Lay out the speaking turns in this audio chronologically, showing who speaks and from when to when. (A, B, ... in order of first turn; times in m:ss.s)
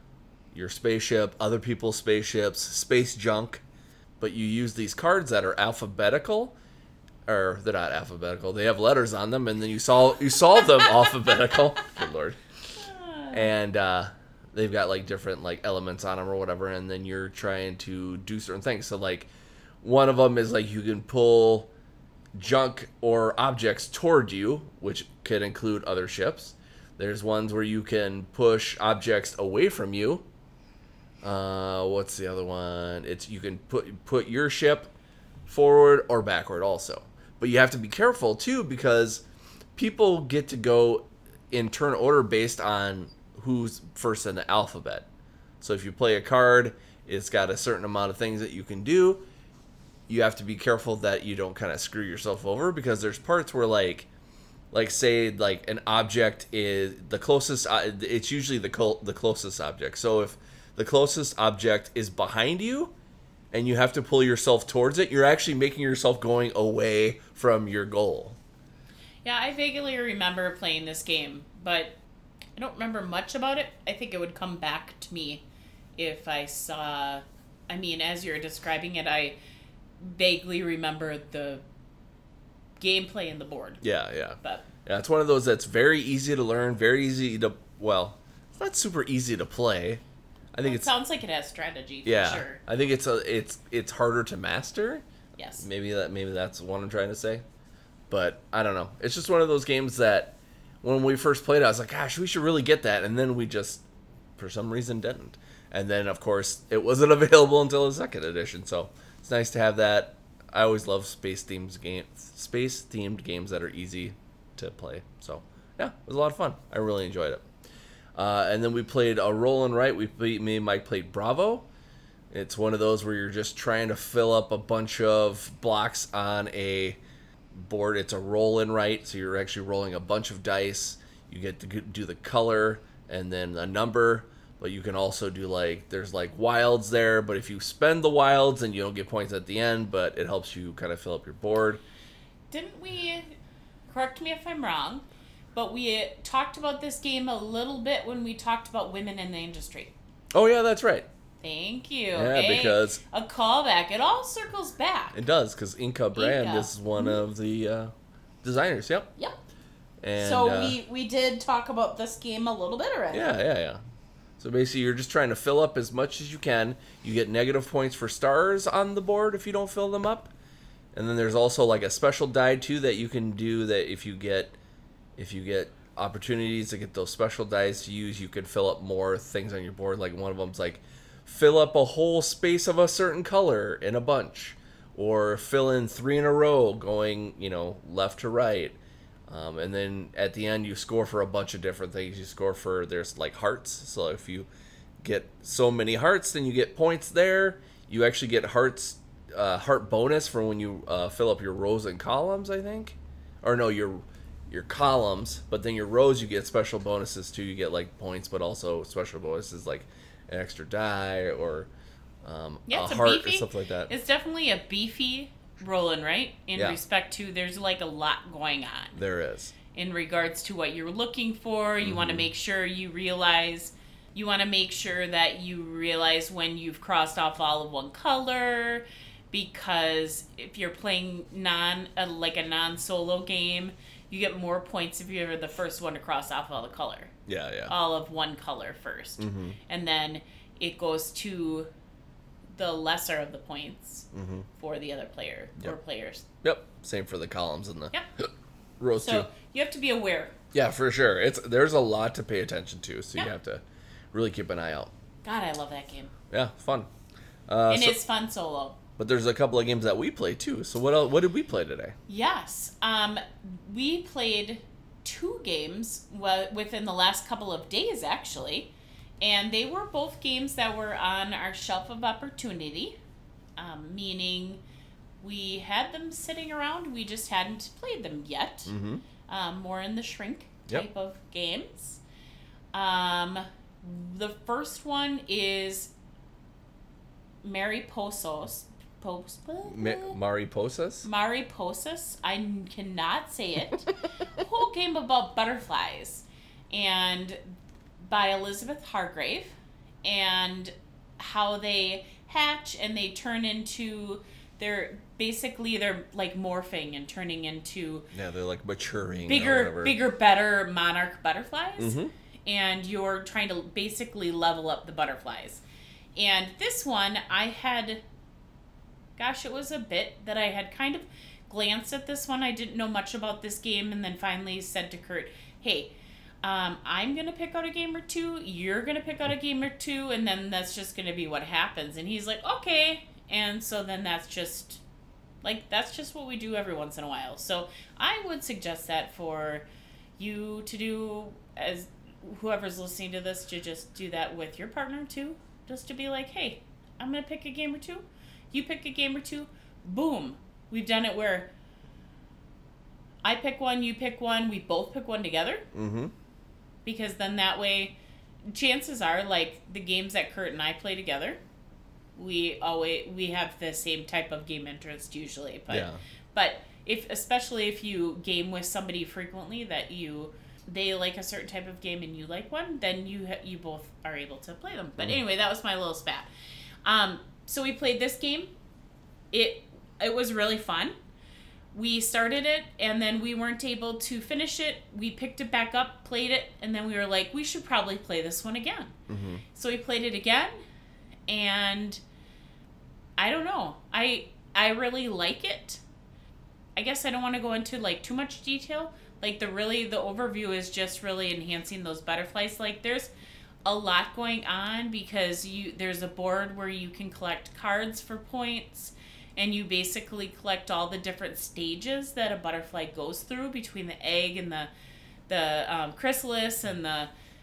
0:00.5-0:03.6 A
0:04.2-0:06.6 A
0:07.3-0:12.4 A
0:10.8-0:11.1 B
0:12.8-0:13.5 B
0:13.3-0:19.3 A
0:19.8-0:21.7 A
0:22.4-0:30.2 A
0:31.2-0:34.9 A
0:35.5-0:39.2 A
0:39.8-0:45.1 A
0:45.6-0:49.2 A
0:50.1-0:54.1 A
0:54.7-1:02.9 A
1:03.5-1:08.4 A
1:09.2-1:12.0 B
1:12.6-1:15.4 B
1:16.0-1:19.4 B
1:20.0-1:21.6 B
1:22.8-1:23.8 B
1:23.8-1:30.0 A
1:24.4-1:24.7 B
1:30.5-1:30.9 A
1:30.6-1:32.6 B
1:32.0-1:35.0 A
1:35.4-1:35.7 B
1:35.6-1:37.4 A
1:38.1-1:43.8 A
1:44.4-1:57.4 A
1:58.2-2:01.7 A
2:02.3-2:07.0 A
2:07.5-2:21.8 A
2:22.5-2:23.3 B
2:23.9-2:29.9 B
2:30.3-2:31.1 A
2:31.4-2:35.2 B
2:32.1-2:33.0 A
2:35.1-2:39.1 A
2:36.1-2:37.2 B
2:40.0-2:40.8 A
2:40.2-2:43.3 B
2:43.1-2:43.8 A
2:44.4-2:50.3 A
2:51.0-2:54.6 A
2:55.2-3:08.8 A
3:09.3-3:14.5 A
3:15.0-3:31.7 A
3:32.2-3:33.9 A
3:32.7-3:39.0 B
3:36.5-3:36.8 A
3:39.0-3:39.5 A
3:39.7-3:57.1 B
3:41.8-3:42.2 A
3:57.3-3:57.7 A
3:57.7-4:01.7 B
3:59.2-3:59.6 A
4:02.6-4:06.3 B
4:04.1-4:04.5 A
4:06.4-4:08.3 A
4:08.8-4:09.3 A
4:09.0-4:10.4 B
4:10.5-4:14.9 A
4:15.2-4:16.1 B
4:16.3-4:16.9 A
4:17.5-4:18.0 A
4:17.7-4:18.8 B
4:19.0-4:22.0 A
4:22.1-4:33.0 B
4:33.6-4:34.6 B
4:35.2-4:38.7 B
4:38.7-4:39.0 A
4:39.3-4:42.0 B
4:42.7-4:45.9 B
4:47.4-4:50.2 B
4:49.6-4:51.1 A
4:51.0-4:57.5 B
4:58.0-5:08.1 B
5:08.1-5:10.0 A
5:09.3-5:15.6 B
5:11.8-5:12.1 A
5:16.2-5:18.0 B
5:19.2-5:34.8 B
5:35.4-5:39.6 B
5:40.2-5:51.5 B
5:53.2-5:55.7 B
5:55.7-5:56.1 A
5:56.8-6:01.4 B
6:02.2-6:16.3 B
6:05.7-6:06.0 A
6:16.8-6:18.5 B
6:19.3-6:20.9 B
6:21.7-6:28.9 B
6:29.1-6:29.4 A
6:29.5-6:30.6 B
6:31.3-6:32.0 B
6:33.2-6:35.8 B
6:36.8-6:43.1 B
6:43.6-6:54.7 B
6:55.3-6:57.1 B